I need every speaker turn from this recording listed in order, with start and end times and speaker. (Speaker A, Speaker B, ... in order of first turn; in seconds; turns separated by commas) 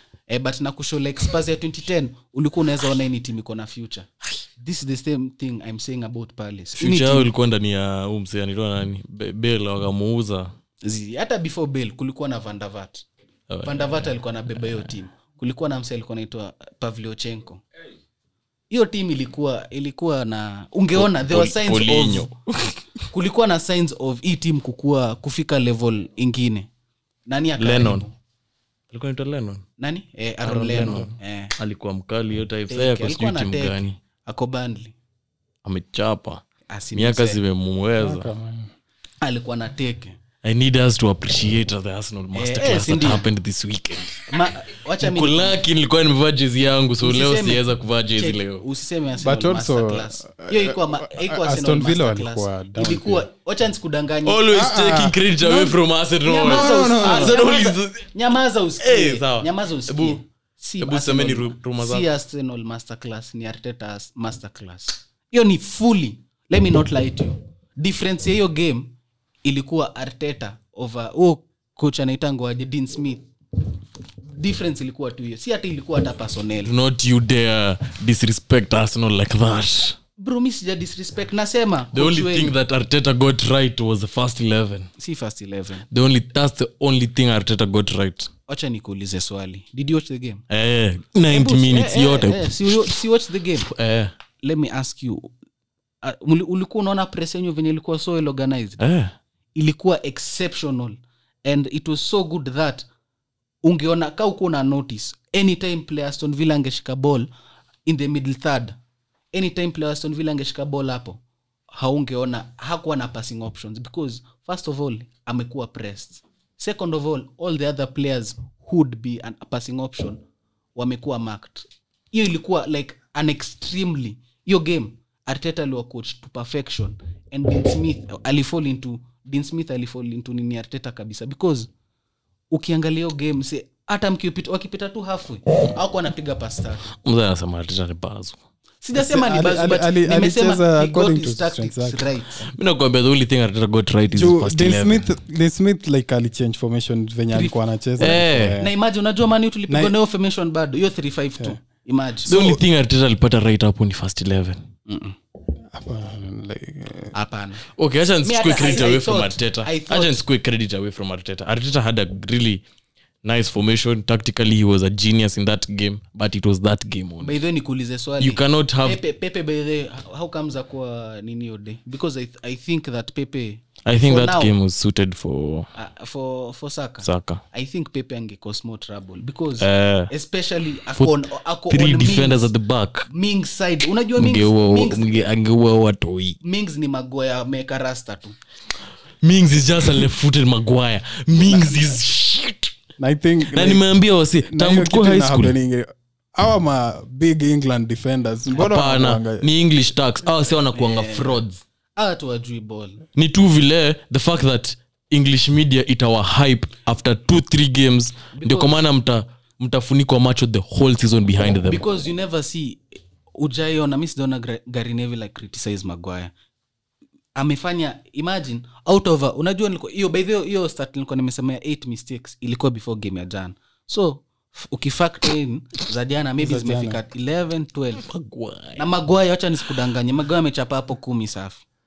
Speaker A: 0.3-7.3, Speaker B: 6.8-10.5, Speaker A: 10.8-13.1, Speaker B: 13.5-14.1, Speaker A: 13.6-17.6, Speaker B: 14.6-14.9, Speaker A: 18.7-22.3, Speaker B: 20.9-22.8, Speaker A: 23.1-26.7, Speaker A: 27.3-28.1, Speaker B: 27.6-28.1, Speaker B: 28.9-29.6, Speaker A: 29.8-31.5, Speaker B: 30.4-34.0, Speaker A: 32.7-35.0, Speaker B: 35.6-36.4, Speaker A: 36.7-37.4, Speaker B: 36.9-38.3, Speaker C: 38.0-38.7, Speaker A: 39.2-40.2, Speaker B: 40.4-44.2, Speaker A: 42.4-43.3, Speaker A: 44.3-45.6, Speaker B: 45.0-48.6, Speaker A: 47.0-47.6, Speaker A: 48.2-54.5, Speaker C: 49.2-53.2, Speaker B: 54.3-58.1, Speaker C: 54.5-55.8, Speaker A: 56.2-73.2, Speaker C: 56.5-57.4, Speaker B: 58.8-60.2, Speaker B: 60.8-62.1, Speaker A: 74.3-76.7, Speaker B: 76.7-80.0, Speaker A: 80.2-82.5, Speaker B: 81.9-84.9, Speaker A: 85.0-85.8, Speaker B: 85.9-88.3, Speaker A: 88.5-90.4, Speaker B: 90.5-92.9, Speaker A: 91.3-93.7, Speaker B: 93.7-94.1, Speaker A: 94.4-95.3, Speaker A: 96.0-98.8, Speaker B: 98.8-99.1, Speaker A: 99.5-102.9, Speaker A: 103.6-107.3, Speaker A: 107.8-108.8, Speaker A: 109.3-111.2, Speaker A: 111.7-120.2, Speaker A: 120.8-131.7, Speaker A: 132.5-136.9, Speaker B: 137.0-138.4, Speaker A: 138.8-142.5, Speaker C: 138.9-142.0, Speaker B: 142.4-145.1, Speaker C: 144.1-148.7, Speaker A: 147.3-152.5, Speaker B: 148.0-148.6, Speaker C: 149.7-149.9, Speaker B: 152.3-154.6, Speaker A: 154.9-155.2, Speaker C: 155.7-157.1, Speaker A: 157.1-157.7, Speaker B: 157.8-162.6, Speaker A: 158.2-160.2, Speaker B: 163.2-167.4, Speaker A: 167.2-174.5, Speaker B: 168.2-169.0, Speaker B: 173.8-175.7, Speaker A: 175.8-182.5, Speaker B: 177.0-177.4, Speaker B: 179.6-180.1, Speaker B: 180.9-183.1, Speaker A: 183.1-185.3, Speaker B: 184.2-186.4, Speaker A: 186.4-188.4, Speaker B: 189.2-192.7, Speaker A: 191.4-192.0, Speaker C: 193.0-193.8, Speaker B: 193.5-195.6, Speaker C: 194.5-199.5, Speaker B: 198.6-201.6, Speaker A: 200.7-201.4, Speaker A: 202.0-203.0, Speaker B: 203.2-211.8, Speaker A: 208.3-208.8, Speaker A: 211.6-216.3, Speaker A: 217.4-228.1, Speaker C: 226.4-227.0, Speaker B: 228.0-228.9, Speaker A: 228.8-231.7